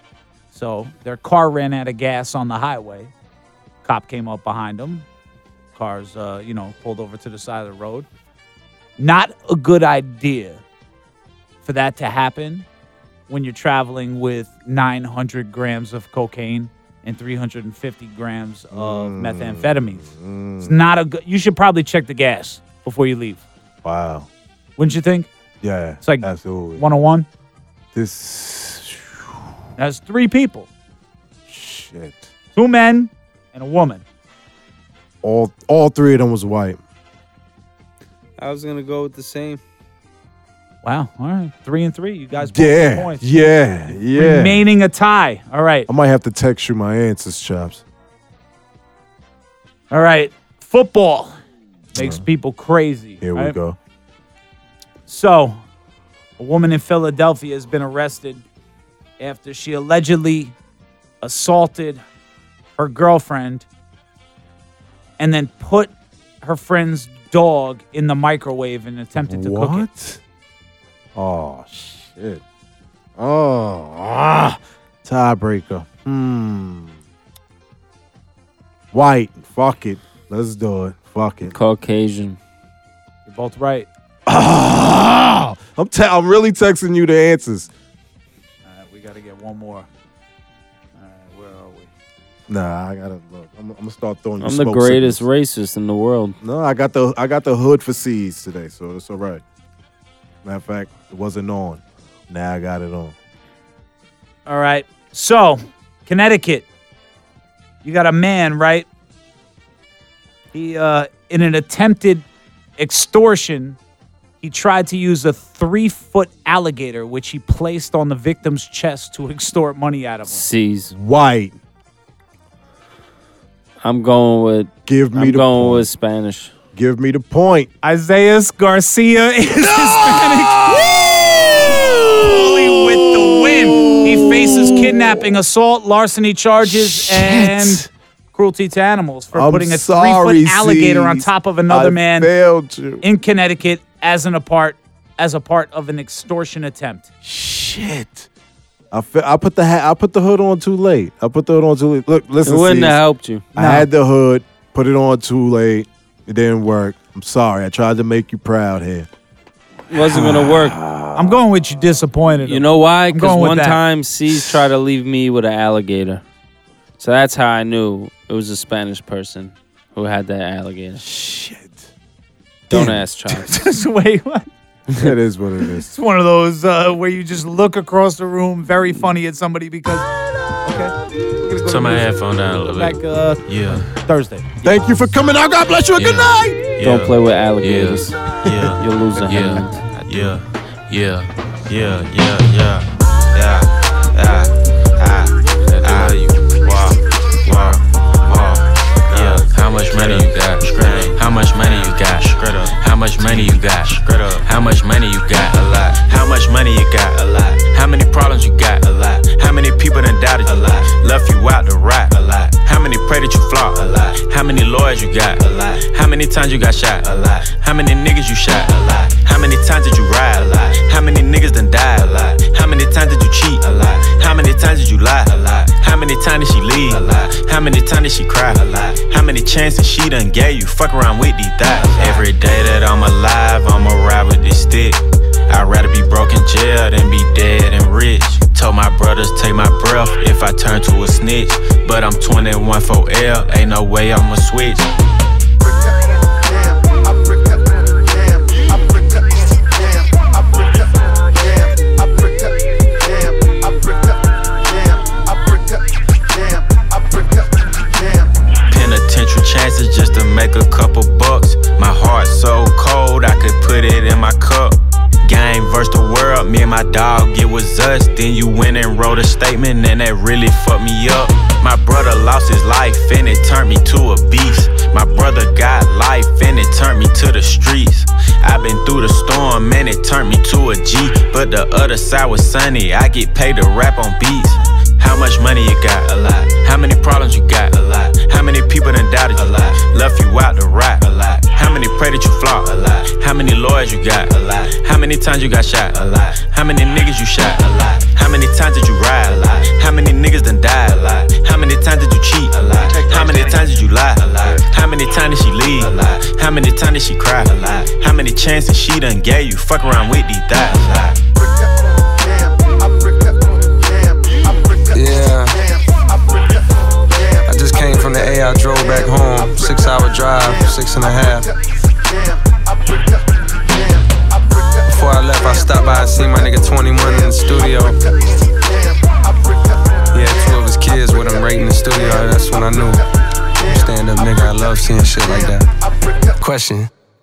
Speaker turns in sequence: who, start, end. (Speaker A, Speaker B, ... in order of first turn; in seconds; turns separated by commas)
Speaker A: 0.5-3.1, Speaker A: 3.8-5.0, Speaker A: 5.7-8.1, Speaker A: 9.0-10.6, Speaker A: 11.6-12.7, Speaker A: 13.3-20.1, Speaker B: 18.7-20.8, Speaker A: 20.6-23.4, Speaker B: 23.8-24.3, Speaker A: 24.8-25.3, Speaker B: 25.6-26.9, Speaker A: 26.0-27.3, Speaker B: 27.9-29.3, Speaker A: 29.8-30.7, Speaker B: 31.5-32.3, Speaker A: 32.5-34.0, Speaker B: 35.2-36.8, Speaker A: 40.8-45.9, Speaker B: 42.3-44.6, Speaker B: 45.9-47.8, Speaker A: 49.9-51.4, Speaker A: 51.9-53.6, Speaker B: 52.0-52.2, Speaker B: 53.2-53.8, Speaker A: 55.1-55.6, Speaker A: 56.4-58.4, Speaker A: 59.2-60.5, Speaker A: 61.2-62.0, Speaker A: 62.8-63.7, Speaker A: 65.2-69.8, Speaker B: 69.2-70.2, Speaker B: 71.1-72.4, Speaker B: 73.2-77.0, Speaker B: 78.9-81.5, Speaker C: 81.5-82.4, Speaker A: 83.3-83.9, Speaker B: 84.2-87.7, Speaker A: 88.7-89.9, Speaker A: 91.0-91.9, Speaker B: 92.5-95.2, Speaker C: 94.4-96.3, Speaker B: 96.4-99.4, Speaker B: 100.4-103.1, Speaker A: 104.5-106.7, Speaker A: 107.8-108.9, Speaker A: 110.5-112.2, Speaker A: 112.8-113.8, Speaker A: 114.4-120.4, Speaker C: 120.3-120.9, Speaker B: 120.9-121.6, Speaker C: 123.8-126.5, Speaker B: 124.8-125.9, Speaker B: 126.7-127.7, Speaker A: 127.8-142.3, Speaker B: 129.6-135.3, Speaker B: 136.6-137.9, Speaker B: 139.3-143.0, Speaker A: 143.0-147.1, Speaker B: 147.2-148.3, Speaker B: 148.9-153.0, Speaker C: 152.4-153.4, Speaker B: 153.5-159.1, Speaker A: 153.6-153.9, Speaker C: 159.9-160.8, Speaker B: 160.0-161.4, Speaker A: 161.1-163.8, Speaker C: 162.4-166.2, Speaker B: 164.3-164.6, Speaker C: 167.0-171.0, Speaker B: 171.0-171.9, Speaker B: 172.7-173.0, Speaker C: 172.7-173.5, Speaker A: 173.5-174.5, Speaker B: 174.9-175.9, Speaker A: 175.9-180.1, Speaker A: 180.6-184.7, Speaker D: 181.7-183.9, Speaker B: 184.6-186.6, Speaker D: 185.9-244.9, Speaker C: 186.8-188.2, Speaker C: 188.8-189.8, Speaker D: 258.7-311.1, Speaker E: 314.9-315.6, Speaker E: 317.4-321.5, Speaker E: 324.9-328.0, Speaker E: 330.1-333.0, Speaker E: 333.6-335.7, Speaker E: 336.4-336.9